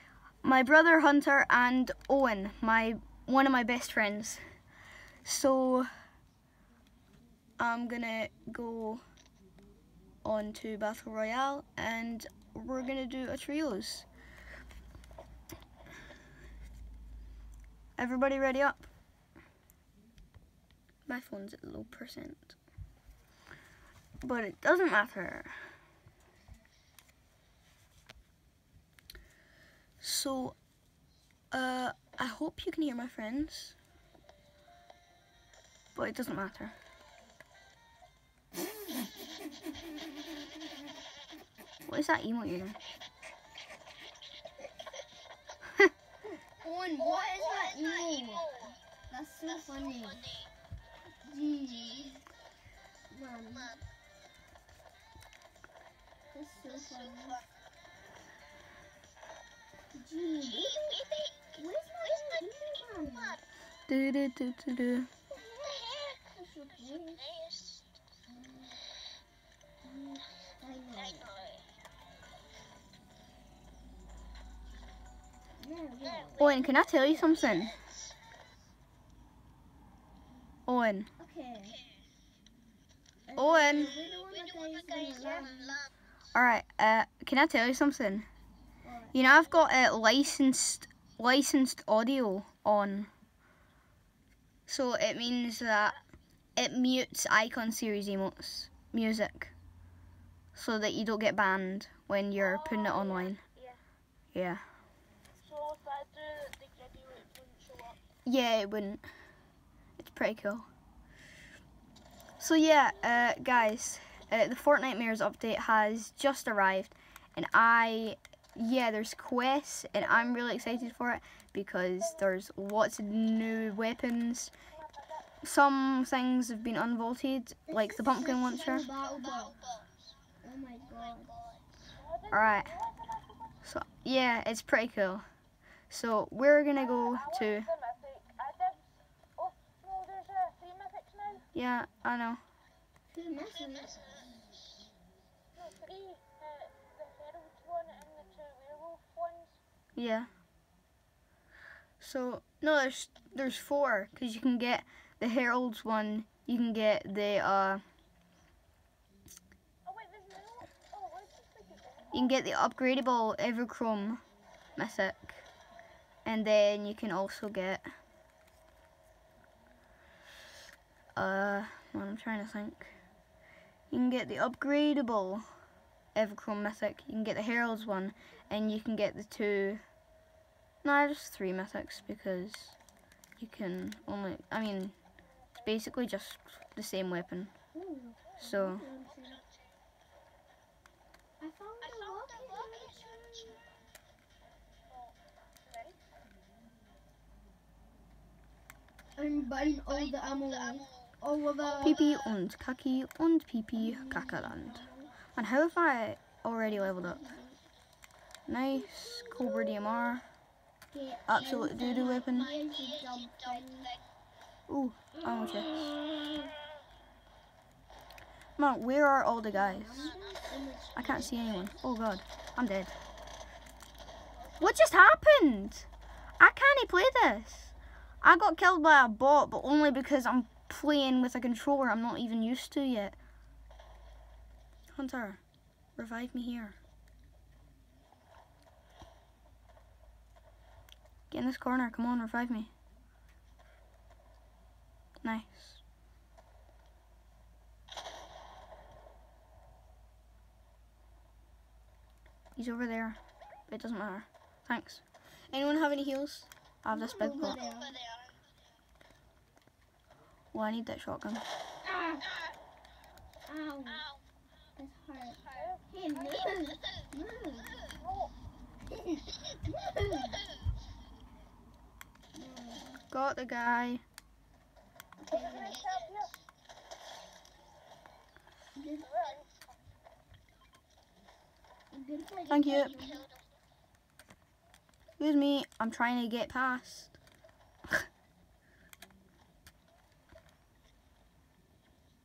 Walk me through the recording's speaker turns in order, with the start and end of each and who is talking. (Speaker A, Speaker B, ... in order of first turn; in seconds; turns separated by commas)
Speaker A: 0.4-4.4, Speaker A: 5.2-5.9, Speaker A: 7.6-9.0, Speaker A: 10.2-14.1, Speaker A: 18.0-18.9, Speaker A: 21.1-22.5, Speaker A: 24.2-25.5, Speaker A: 30.0-30.6, Speaker A: 31.5-33.8, Speaker A: 35.9-36.7, Speaker A: 41.9-42.8, Speaker B: 46.2-50.4, Speaker B: 51.1-52.3, Speaker B: 53.1-53.8, Speaker B: 56.3-57.4, Speaker B: 59.9-63.4, Speaker A: 63.9-65.1, Speaker B: 65.3-67.4, Speaker B: 68.3-68.8, Speaker B: 69.8-71.4, Speaker B: 75.6-77.3, Speaker A: 76.4-77.8, Speaker A: 80.7-81.1, Speaker B: 81.2-81.8, Speaker B: 83.3-85.9, Speaker A: 83.3-83.9, Speaker A: 86.3-88.3, Speaker B: 88.8-89.2, Speaker A: 89.1-93.1, Speaker A: 94.7-96.0, Speaker A: 96.6-99.5, Speaker A: 100.5-103.4, Speaker C: 102.4-103.8, Speaker A: 104.3-104.6, Speaker C: 105.4-108.0, Speaker A: 108.2-109.0, Speaker A: 110.0-110.7, Speaker A: 112.4-124.5, Speaker C: 120.0-120.9, Speaker C: 122.0-122.3, Speaker C: 124.7-125.3, Speaker A: 125.4-128.8, Speaker B: 127.7-129.7, Speaker B: 130.4-131.6, Speaker C: 131.9-133.6, Speaker A: 132.3-132.7, Speaker A: 133.6-135.2, Speaker A: 135.9-137.7, Speaker C: 136.7-141.5, Speaker A: 141.5-142.4, Speaker B: 143.1-144.2, Speaker C: 145.6-149.6, Speaker A: 149.9-150.3, Speaker A: 152.0-157.8, Speaker C: 159.8-162.3, Speaker A: 162.1-164.2, Speaker A: 164.8-165.4, Speaker A: 166.2-167.8, Speaker A: 171.2-172.9, Speaker A: 173.9-175.4, Speaker A: 176.1-179.8, Speaker A: 180.8-182.8, Speaker A: 183.4-184.9, Speaker A: 185.6-187.5, Speaker B: 187.7-189.4, Speaker A: 188.4-188.8, Speaker B: 191.4-193.7, Speaker C: 194.9-196.0, Speaker B: 199.2-202.1, Speaker A: 201.8-207.2, Speaker B: 203.7-205.2, Speaker B: 206.6-207.6, Speaker A: 208.5-210.2, Speaker B: 208.7-210.1, Speaker B: 210.9-214.0, Speaker A: 211.3-212.5, Speaker A: 214.7-215.9, Speaker B: 215.1-216.5, Speaker A: 218.6-220.1, Speaker B: 219.5-221.6, Speaker A: 220.9-222.9, Speaker A: 224.6-225.9, Speaker A: 226.4-233.1, Speaker A: 234.9-235.4, Speaker A: 236.0-236.8, Speaker A: 241.3-242.7, Speaker A: 245.2-245.8, Speaker A: 252.6-257.6, Speaker B: 256.9-258.0, Speaker A: 260.5-261.4, Speaker B: 261.8-262.3, Speaker B: 263.4-264.1, Speaker B: 264.8-267.9, Speaker C: 265.5-265.8, Speaker C: 267.9-268.3, Speaker B: 268.8-270.4, Speaker B: 272.3-273.0, Speaker A: 273.1-274.0, Speaker B: 275.2-275.9, Speaker C: 275.3-276.3, Speaker B: 278.7-279.1, Speaker C: 279.0-279.6, Speaker B: 281.9-283.3, Speaker A: 282.5-282.9, Speaker A: 285.2-287.1